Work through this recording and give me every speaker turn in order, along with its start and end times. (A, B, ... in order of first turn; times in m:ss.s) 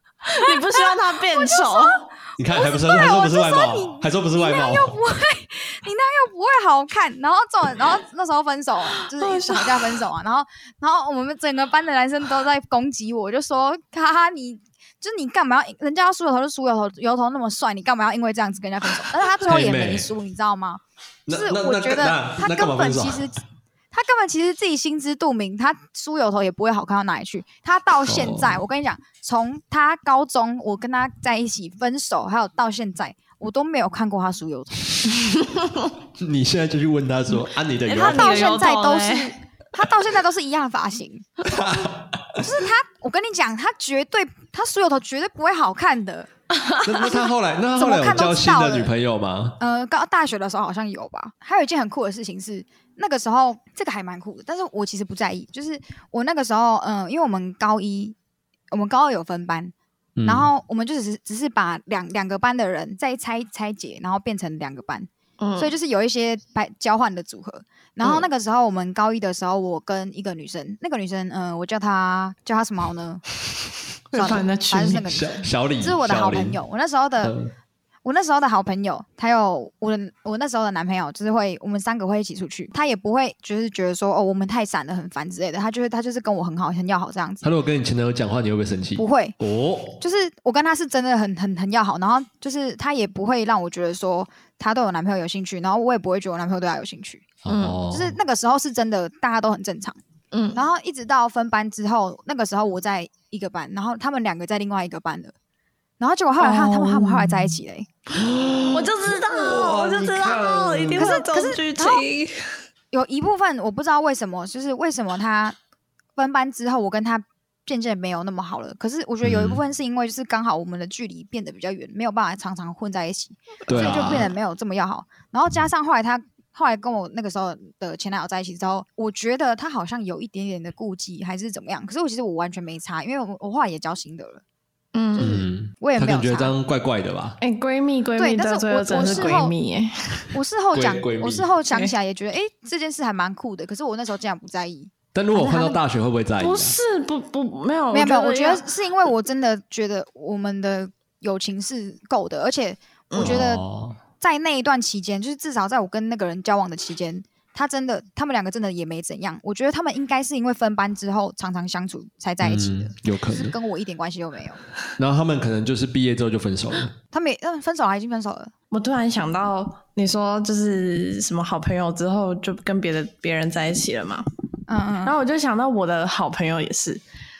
0:00.3-0:02.1 A
0:00.3-0:02.0 B
0:02.4-0:05.0 C
0:02.5-0:23.4 B
0:09.2-0:10.0 A
0:19.4-0:20.1 C
0:21.3-0:23.2 C
0:23.9-0:35.2 B
0:28.1-0:28.6 C
0:36.2-0:38.5 C
0:37.9-0:39.4 A
0:38.0-0:41.3 B
0:41.4-0:42.3 C
0:42.4-0:46.3 B
0:46.5-0:47.2 A
0:46.8-0:49.6 C
0:47.8-0:48.9 B
0:49.6-0:58.2 B
0:58.7-0:59.7 B
1:00.2-1:00.5 C
1:00.2-1:13.2 B
1:05.4-1:05.7 A
1:08.0-1:08.3 A
1:14.1-1:15.1 A
1:14.1-1:17.4 B
1:15.1-1:16.6 C
1:17.2-1:17.5 C
1:18.0-1:27.5 B
1:27.4-1:30.0 C
1:29.0-1:29.4 B
1:30.0-1:37.3 B
1:37.4-1:38.2 C
1:37.5-1:37.8 A
1:37.9-1:40.0 B
1:40.3-1:40.6 A
1:40.6-1:45.4 B
1:46.0-1:47.9 B
1:46.4-1:47.5 A
1:48.1-1:51.2 C
1:48.7-1:52.5 A
1:51.0-1:52.0 B
1:52.9-1:55.6 B
1:56.2-2:14.4 B
1:59.2-1:59.6 C
2:03.7-2:04.3 C
2:03.7-2:04.2 A
2:14.9-2:15.4 A
2:15.2-2:16.6 B
2:15.2-2:17.4 C
2:17.4-2:20.3 A
2:18.2-2:19.5 B
2:19.0-2:19.4 C
2:20.3-2:25.8 B
2:20.7-2:21.5 C
2:21.7-2:22.0 A
2:25.1-2:26.8 C
2:26.4-2:28.7 A
2:27.9-2:33.6 B
2:33.1-2:33.4 A
2:33.2-2:34.0 C
2:34.2-2:44.6 B
2:42.4-2:43.6 C
2:45.0-2:46.9 C
2:47.1-2:48.5 B
2:48.7-2:54.3 A
2:54.7-2:55.2 B
2:55.0-2:57.0 A